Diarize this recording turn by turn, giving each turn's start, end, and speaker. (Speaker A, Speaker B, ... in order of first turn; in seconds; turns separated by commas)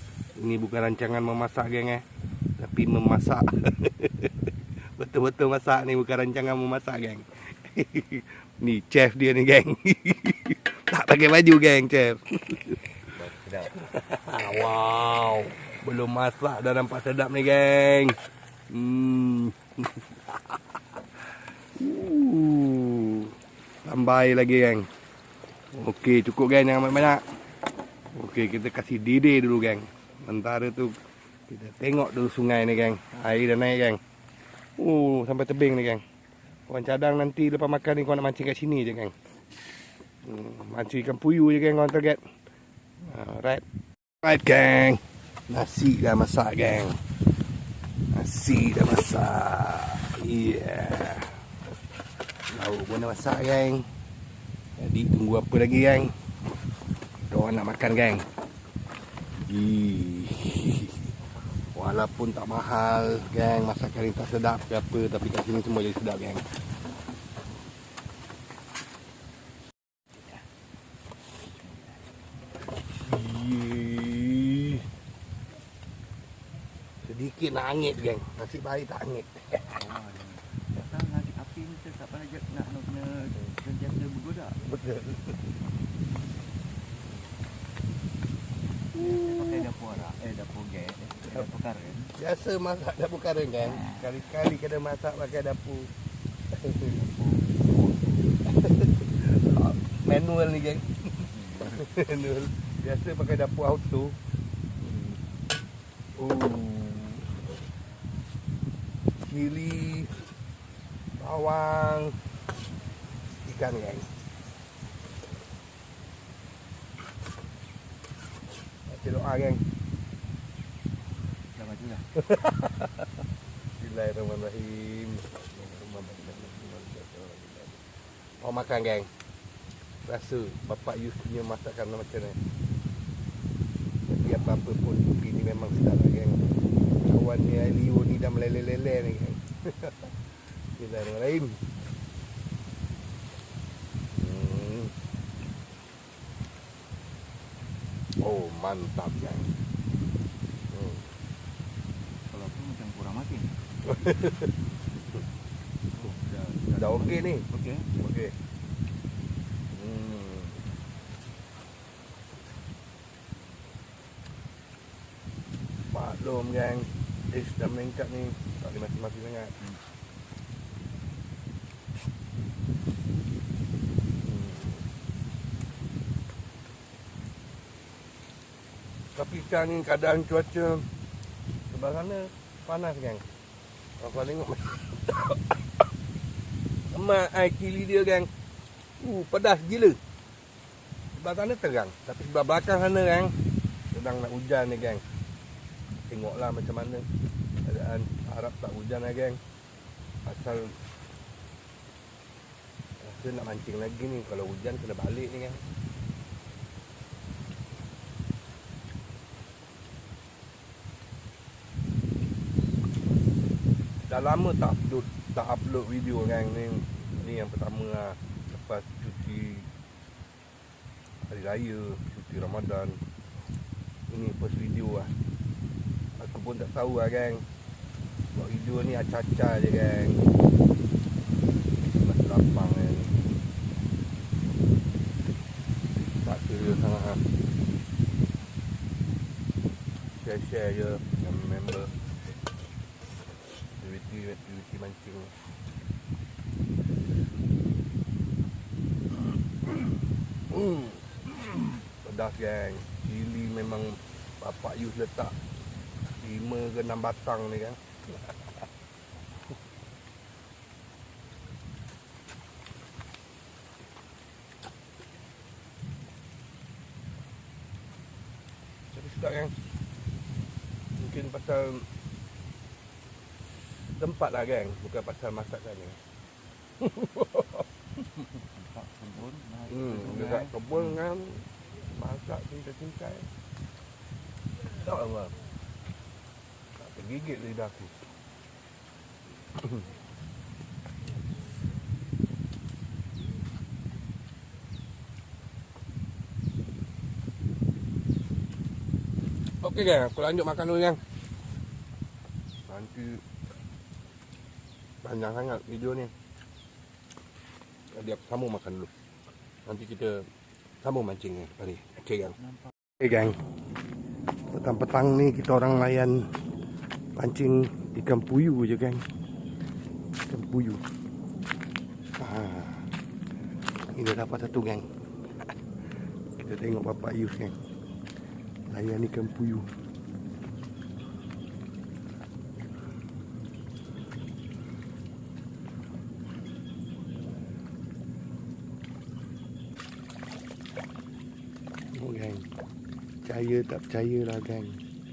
Speaker A: 0.3-2.0, Speaker A: 2.6-12.8, Speaker B: 13.2-13.7, Speaker A: 13.4-18.2, Speaker A: 18.7-20.6, Speaker A: 21.7-24.9, Speaker A: 25.7-27.2, Speaker A: 28.1-31.0, Speaker A: 31.5-34.0, Speaker A: 34.8-36.0, Speaker A: 36.7-39.1, Speaker A: 40.2-42.2, Speaker A: 43.0-43.6, Speaker A: 44.2-47.0, Speaker A: 48.1-51.4, Speaker A: 52.5-53.9, Speaker A: 54.8-56.1, Speaker A: 57.3-58.2, Speaker A: 59.5-61.0, Speaker A: 61.7-66.4, Speaker A: 73.0-74.9, Speaker A: 77.0-79.8, Speaker B: 79.8-84.6, Speaker A: 84.6-85.4, Speaker B: 88.9-92.1, Speaker A: 88.9-89.7, Speaker A: 92.1-95.9, Speaker A: 96.5-97.0, Speaker B: 96.8-98.1, Speaker A: 98.4-104.2, Speaker A: 104.8-105.2, Speaker A: 106.2-107.3, Speaker A: 109.2-110.1, Speaker A: 111.2-112.2, Speaker A: 113.4-114.1, Speaker A: 118.9-119.6, Speaker B: 121.5-122.1, Speaker A: 122.1-123.1, Speaker A: 123.8-127.8, Speaker A: 128.4-129.1, Speaker A: 130.0-132.4, Speaker A: 134.1-136.4, Speaker A: 137.0-140.2, Speaker A: 140.8-141.6, Speaker A: 144.1-144.9, Speaker A: 148.2-149.5, Speaker A: 150.7-151.1, Speaker B: 152.3-153.6, Speaker A: 153.8-154.5, Speaker B: 155.9-157.9, Speaker A: 156.7-158.3, Speaker A: 159.7-160.6, Speaker A: 165.9-169.6, Speaker A: 174.2-174.8, Speaker A: 179.1-180.9, Speaker A: 181.7-183.2, Speaker A: 184.0-185.5, Speaker A: 186.9-188.3, Speaker A: 189.0-190.0, Speaker A: 191.1-193.3, Speaker A: 193.9-195.0, Speaker A: 196.1-197.1, Speaker A: 197.6-199.4, Speaker A: 200.2-200.8, Speaker A: 203.0-205.6, Speaker A: 214.0-219.7, Speaker A: 221.2-223.0, Speaker A: 224.1-225.1, Speaker A: 226.2-227.4, Speaker A: 228.3-230.3, Speaker A: 231.8-233.3, Speaker A: 236.0-237.2, Speaker A: 240.2-241.9, Speaker A: 243.8-245.3, Speaker A: 250.5-255.3, Speaker A: 256.2-257.8, Speaker A: 268.9-269.5, Speaker A: 271.0-271.9, Speaker A: 274.0-276.0, Speaker A: 276.8-277.6, Speaker B: 278.5-280.6, Speaker A: 279.7-283.3, Speaker A: 284.6-285.4, Speaker A: 286.8-287.9, Speaker A: 299.6-301.0, Speaker A: 302.7-303.2, Speaker A: 305.0-306.1, Speaker A: 307.9-308.9, Speaker A: 309.6-310.3, Speaker A: 310.8-312.4, Speaker A: 313.0-313.4, Speaker A: 314.5-316.3, Speaker A: 317.1-319.0, Speaker A: 320.3-320.8, Speaker A: 322.2-322.9, Speaker A: 323.9-324.9, Speaker A: 326.4-327.6, Speaker A: 328.7-329.7, Speaker A: 341.9-342.5, Speaker A: 343.2-344.8